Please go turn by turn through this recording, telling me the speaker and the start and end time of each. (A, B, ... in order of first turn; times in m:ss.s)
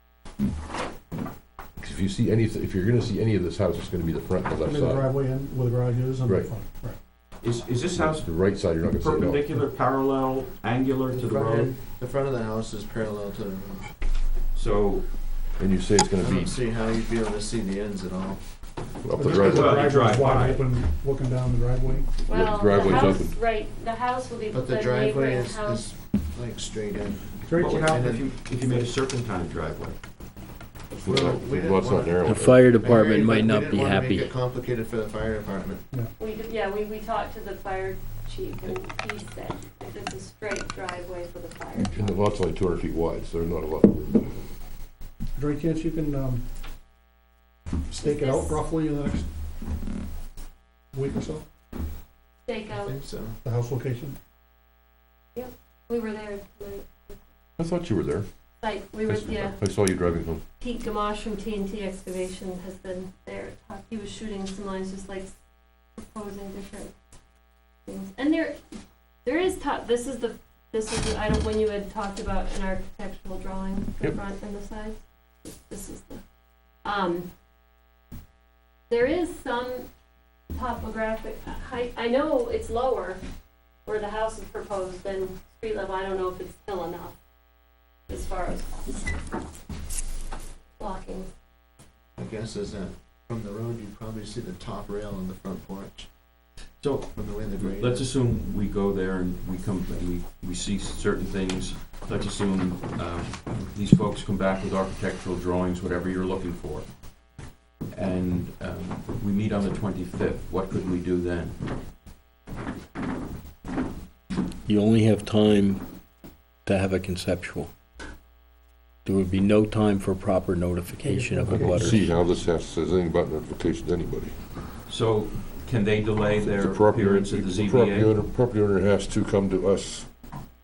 0:01.8-0:05.1 A
0:04.6-0:07.0 B
0:07.4-0:08.3 C
0:08.0-0:09.5 A
0:09.0-0:11.7 C
0:11.1-0:13.8 D
0:14.5-0:15.0 C
0:15.6-0:16.5 A
0:16.2-0:18.4 D
0:19.0-0:20.0 A
0:19.1-0:22.2 B
0:19.3-0:20.7 C
0:22.2-0:23.3 A
0:22.2-0:25.8 E
0:24.5-0:28.9 D
0:27.4-0:27.9 B
0:27.5-0:30.0 C
0:31.0-0:32.8 A
0:31.0-0:32.2 D
0:32.2-0:34.3 F
0:32.8-0:35.8 D
0:36.2-0:42.2 E
0:41.9-0:44.5 A
0:45.4-0:46.4 B
0:47.9-0:49.3 B
0:48.0-0:48.6 E
0:50.9-0:51.4 B
0:52.4-0:52.9 E
0:52.7-0:53.4 D
0:53.4-0:54.2 B
0:55.3-0:57.2 E
0:57.6-0:58.3 A
0:58.6-0:59.6 E
0:59.1-1:00.4 A
1:00.6-1:05.3 E
1:06.0-1:06.9 E
1:07.8-1:08.6 E
1:09.2-1:16.2 E
1:16.8-1:17.3 E
1:18.9-1:19.9 E
1:20.5-1:23.2 E
1:23.8-1:27.2 E
1:28.1-1:29.2 E
1:30.8-1:31.3 E
1:32.2-1:36.1 D
1:36.8-1:46.9 C
1:37.1-1:38.1 D
1:47.9-1:51.6 C
1:54.7-1:55.8 F
1:56.6-1:57.7 F
1:59.0-2:02.1 F
2:01.0-2:01.9 B
2:01.5-2:04.4 A
2:04.9-2:08.1 C
2:06.4-2:10.1 A